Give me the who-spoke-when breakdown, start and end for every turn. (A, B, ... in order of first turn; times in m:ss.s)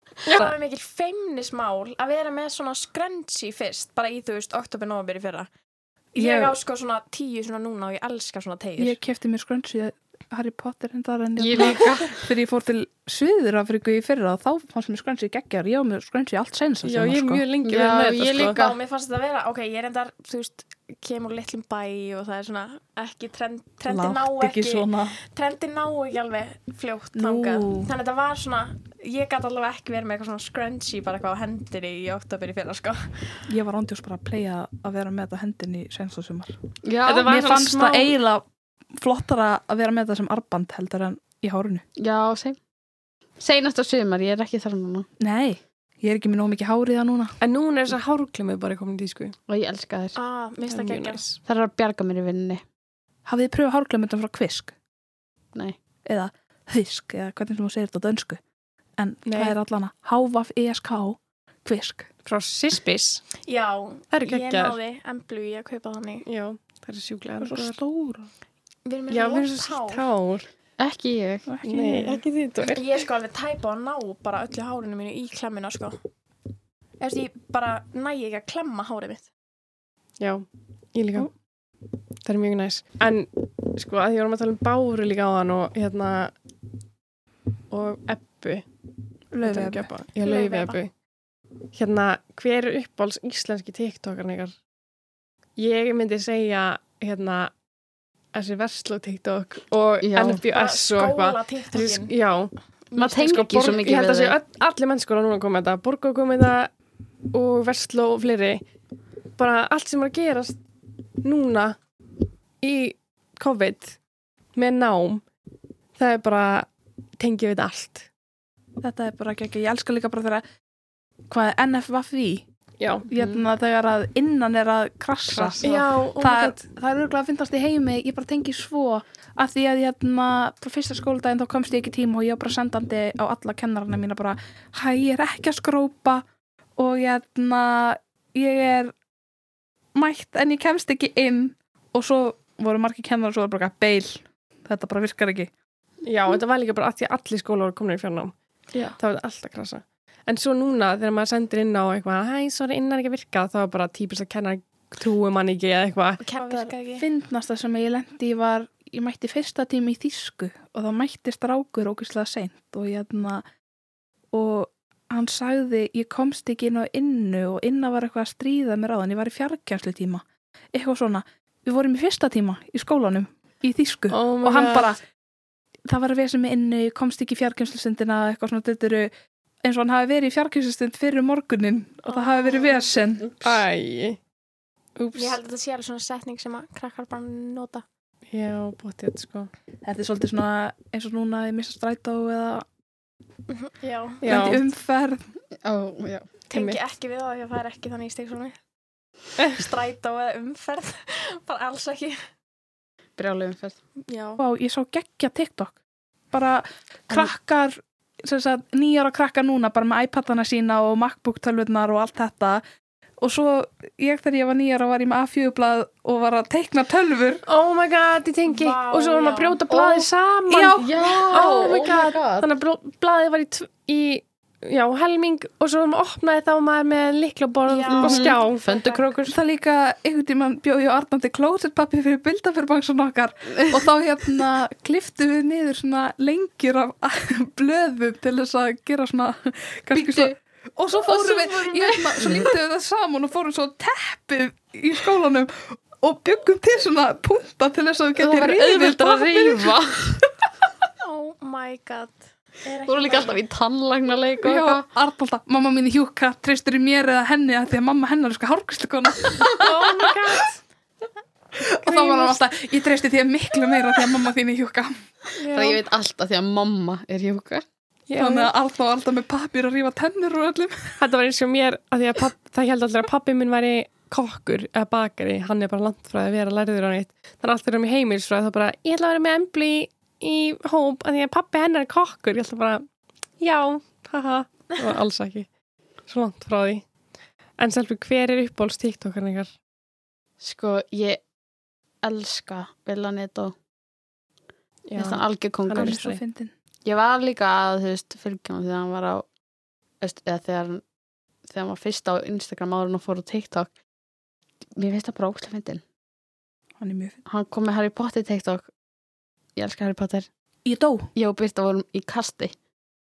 0:00.2-0:05.5 A
0:00.3-0:00.5 B
0:06.1-0:09.0 A
0:06.2-0:06.6 C
0:08.8-0:17.4 C
0:11.4-0:12.2 D
0:16.8-0:18.6 B
0:17.6-0:18.8 D
0:18.5-0:33.4 A
0:23.9-0:25.2 C
0:27.2-0:27.9 C
0:33.5-0:36.5 C
0:36.8-0:37.3 D
0:37.0-0:38.1 B
0:37.2-0:38.4 C
0:39.0-0:41.8 C
0:42.0-0:42.6 D
0:43.4-0:45.1 D
0:45.2-0:47.3 C
0:47.4-0:49.4 B
0:49.5-0:50.2 D
0:50.2-0:51.3 A
0:50.7-0:51.3 B
0:51.4-0:52.6 D
0:53.2-0:54.7 C
0:56.0-0:58.4 C
0:59.0-1:02.1 C
0:59.2-0:59.6 B
1:02.2-1:03.2 B
1:03.4-1:06.2 A
1:04.1-1:04.8 B
1:06.2-1:07.8 B
1:07.4-1:08.3 C
1:08.8-1:10.0 A
1:09.1-1:10.5 B
1:10.8-1:11.4 D
1:11.5-1:12.2 C
1:11.6-1:13.0 B
1:12.7-1:16.0 A
1:17.0-1:19.2 A
1:20.2-1:21.3 B
1:22.2-1:26.3 B
1:27.7-1:28.6 B
1:29.3-1:29.9 C
1:29.4-1:30.9 B
1:30.2-1:30.8 A
1:31.7-1:34.5 B
1:35.6-1:37.5 B
1:38.3-1:42.5 B
1:40.0-1:40.4 D
1:40.5-1:42.1 A
1:42.9-1:43.8 A
1:43.0-1:44.4 D
1:43.2-1:46.7 B
1:47.3-1:48.6 B
1:49.4-1:50.6 B
1:51.2-1:51.8 B
1:52.6-1:54.0 B
1:54.5-1:55.2 B
1:56.0-1:56.7 B
1:57.2-1:58.1 B
1:58.8-2:00.4 C
2:01.3-2:02.4 C
2:02.8-2:03.0 B
2:03.1-2:16.2 C
2:03.1-2:03.4 D
2:05.3-2:06.6 B
2:16.8-2:18.9 C
2:19.9-2:25.5 C
2:26.0-2:28.3 B
2:29.0-2:36.2 B
2:36.2-2:37.0 A
2:36.5-2:43.4 C
2:44.3-2:50.2 C
2:50.7-2:55.0 C
2:54.1-2:54.9 B
2:55.8-2:59.1 C
2:59.6-3:03.3 C
3:02.0-3:02.9 A
3:03.4-3:04.2 B
3:05.0-3:05.4 B
3:05.1-3:07.8 A
3:08.3-3:09.5 B
3:09.8-3:12.6 C
3:13.5-3:14.3 A
3:14.2-3:14.6 B
3:14.2-3:15.3 C
3:15.6-3:16.3 D
3:16.5-3:18.6 A
3:19.4-3:22.2 A
3:23.2-3:23.8 D
3:24.0-3:24.4 A
3:24.4-3:25.7 C
3:26.3-3:32.6 C
3:33.2-3:37.4 C
3:37.5-3:48.6 B
3:38.5-3:39.6 A
3:39.7-3:40.1 D
3:40.5-3:40.9 C
3:40.8-3:42.5 D
3:47.6-3:49.0 A
3:47.9-3:49.4 D
3:49.3-4:09.7 C
3:59.9-4:00.3 D
4:01.1-4:02.5 D
4:08.2-4:10.3 D
4:11.0-4:13.4 A
4:12.8-4:14.8 D
4:14.4-4:20.3 C
4:19.5-4:20.6 B
4:21.6-4:25.0 C
4:21.8-4:22.4 B
4:25.4-4:25.8 B
4:25.5-4:27.6 D
4:28.1-4:28.5 B
4:28.2-4:31.0 C
4:31.0-4:42.8 B
4:43.4-4:45.5 B
4:46.1-4:46.8 B
4:47.6-4:49.5 B
4:50.4-4:51.2 D
4:52.0-4:53.5 D
4:54.9-4:56.2 B
4:55.0-4:56.0 D
4:55.7-4:56.5 C
4:56.8-4:59.2 D
5:00.0-5:00.8 D
5:01.5-5:03.7 D
5:04.8-5:05.8 D
5:06.8-5:07.2 C
5:07.2-5:08.7 D
5:09.6-5:10.3 D
5:10.6-5:11.1 C
5:11.1-5:12.5 D